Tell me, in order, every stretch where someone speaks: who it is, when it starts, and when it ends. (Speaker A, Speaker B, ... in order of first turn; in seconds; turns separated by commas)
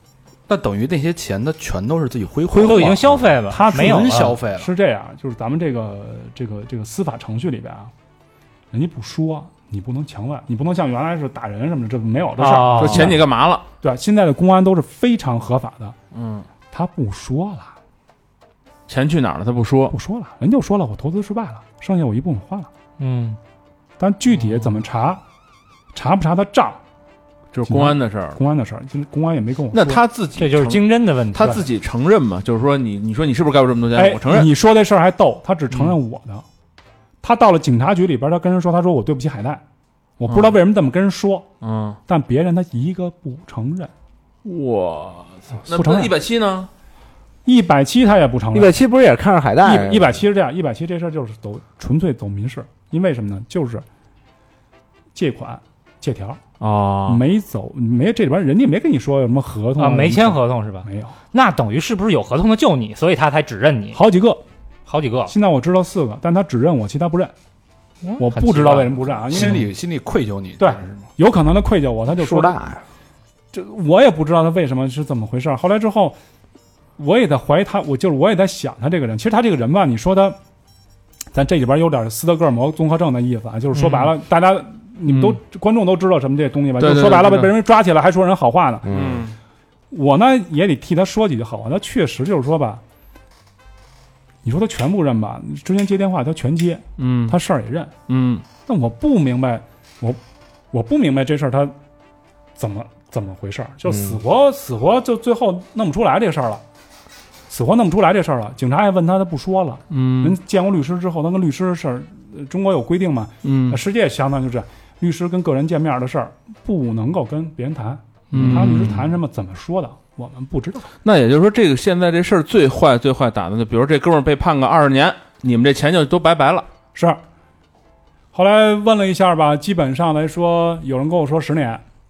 Speaker A: 0.5-3.0, Speaker B: 2.5-3.3, Speaker C: 2.5-4.4, Speaker D: 3.5-7.9, Speaker A: 3.7-4.7, Speaker D: 8.7-13.3, Speaker C: 12.4-13.2, Speaker E: 12.7-13.7, Speaker D: 13.8-16.0, Speaker E: 16.1-16.5, Speaker D: 16.7-17.7, Speaker E: 18.9-20.0, Speaker D: 19.9-22.7, Speaker C: 23.0-23.4, Speaker D: 24.0-25.2, Speaker D: 25.9-26.8, Speaker E: 27.5-28.4, Speaker D: 27.7-30.0, Speaker E: 29.7-34.5, Speaker C: 30.4-31.7, Speaker D: 34.0-36.5, Speaker D: 37.2-39.6, Speaker D: 40.2-41.5, Speaker E: 40.3-40.5, Speaker E: 41.6-42.0, Speaker D: 42.1-43.9, Speaker E: 44.4-46.7, Speaker D: 45.7-46.1, Speaker D: 47.5-48.8, Speaker B: 48.5-50.2, Speaker D: 49.6-53.9, Speaker D: 55.1-56.4, Speaker E: 56.6-57.2, Speaker D: 57.0-61.2, Speaker C: 59.8-64.0, Speaker D: 63.9-64.4, Speaker C: 64.9-65.3, Speaker D: 65.3-67.3, Speaker C: 68.0-69.4, Speaker D: 68.2-69.7, Speaker A: 69.3-71.0, Speaker D: 70.6-72.6, Speaker B: 72.2-72.8, Speaker D: 73.5-76.2, Speaker D: 77.0-80.4, Speaker D: 81.3-89.1, Speaker C: 83.7-84.1, Speaker E: 85.1-85.4, Speaker E: 86.8-87.5, Speaker B: 88.9-89.2, Speaker E: 88.9-89.3, Speaker D: 89.9-92.8, Speaker D: 94.4-97.9, Speaker E: 97.0-97.4, Speaker E: 98.1-98.4, Speaker D: 98.7-100.2, Speaker D: 100.7-101.8, Speaker D: 102.6-106.6, Speaker B: 103.9-104.2, Speaker D: 107.5-120.9, Speaker E: 109.9-110.4, Speaker E: 113.4-113.8, Speaker E: 118.3-119.1, Speaker E: 121.0-126.7, Speaker D: 127.0-127.2, Speaker D: 128.3-131.8